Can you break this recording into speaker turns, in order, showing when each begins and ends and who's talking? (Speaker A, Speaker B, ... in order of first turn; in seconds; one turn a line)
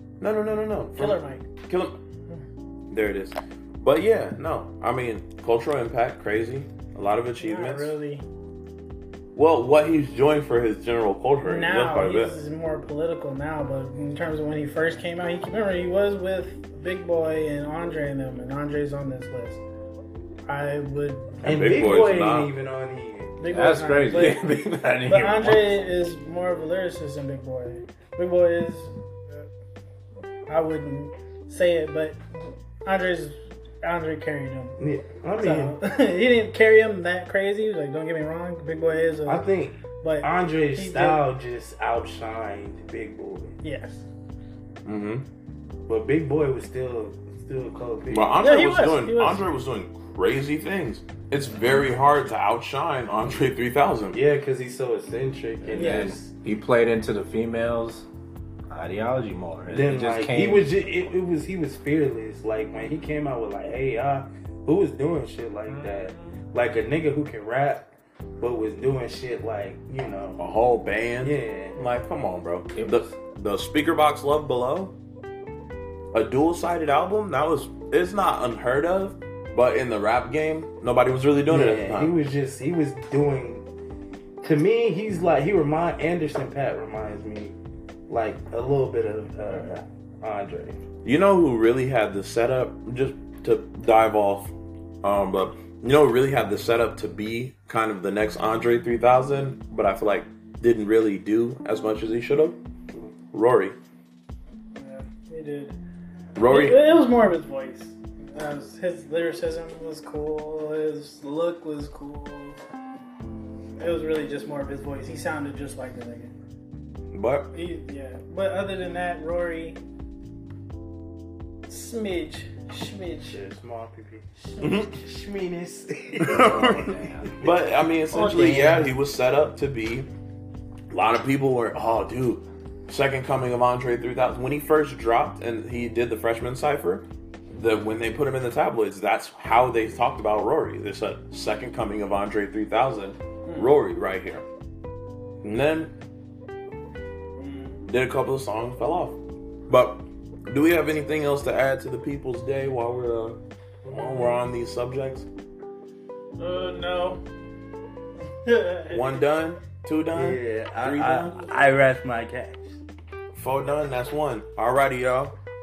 Speaker A: 0.2-1.9
Speaker B: 0.9-1.5
Speaker A: 2.9-7.9
Speaker B: 7.4-8.2
Speaker A: 9.3-12.4
Speaker B: 11.4-19.6
Speaker B: 20.5-21.7
Speaker C: 21.4-23.4
Speaker A: 21.4-22.5
Speaker B: 23.4-29.5
Speaker D: 23.5-25.8
Speaker B: 30.5-34.8
Speaker C: 34.8-35.8
Speaker B: 35.4-39.5
Speaker C: 39.3-43.6
Speaker B: 40.0-41.2
Speaker B: 43.6-44.0
Speaker A: 44.9-45.2
Speaker C: 45.9-48.4
Speaker A: 48.1-54.2
Speaker B: 48.4-49.5
Speaker C: 54.1-56.3
Speaker D: 55.7-58.1
Speaker B: 55.7-56.1
Speaker D: 58.7-60.8
Speaker C: 59.7-67.9
Speaker D: 65.7-66.4
Speaker C: 68.4-70.4
Speaker A: 70.4-74.9
Speaker C: 71.2-71.8
Speaker D: 72.7-73.2
Speaker A: 76.1-82.1
Speaker C: 81.5-83.7
Speaker C: 84.4-87.6
Speaker C: 88.1-90.8
Speaker A: 91.0-102.6
Speaker A: 103.3-103.8
Speaker B: 104.8-105.8
Speaker A: 106.4-107.0
Speaker B: 106.5-112.6
Speaker B: 113.8-116.3
Speaker A: 117.1-117.5
Speaker B: 117.5-119.8
Speaker B: 121.7-123.4
Speaker C: 123.3-127.4
Speaker B: 124.5-124.9
Speaker A: 124.6-124.9
Speaker A: 126.2-130.1
Speaker D: 126.3-127.5
Speaker D: 128.1-128.9
Speaker B: 128.1-128.9
Speaker A: 130.9-144.4
Speaker B: 143.5-143.7
Speaker A: 145.4-145.9
Speaker B: 147.4-147.8
Speaker A: 147.9-149.2
Speaker A: 149.7-155.3
Speaker C: 153.8-154.3
Speaker B: 156.4-157.2
Speaker B: 158.4-159.3
Speaker A: 158.9-161.5
Speaker C: 160.1-162.8
Speaker A: 163.3-165.3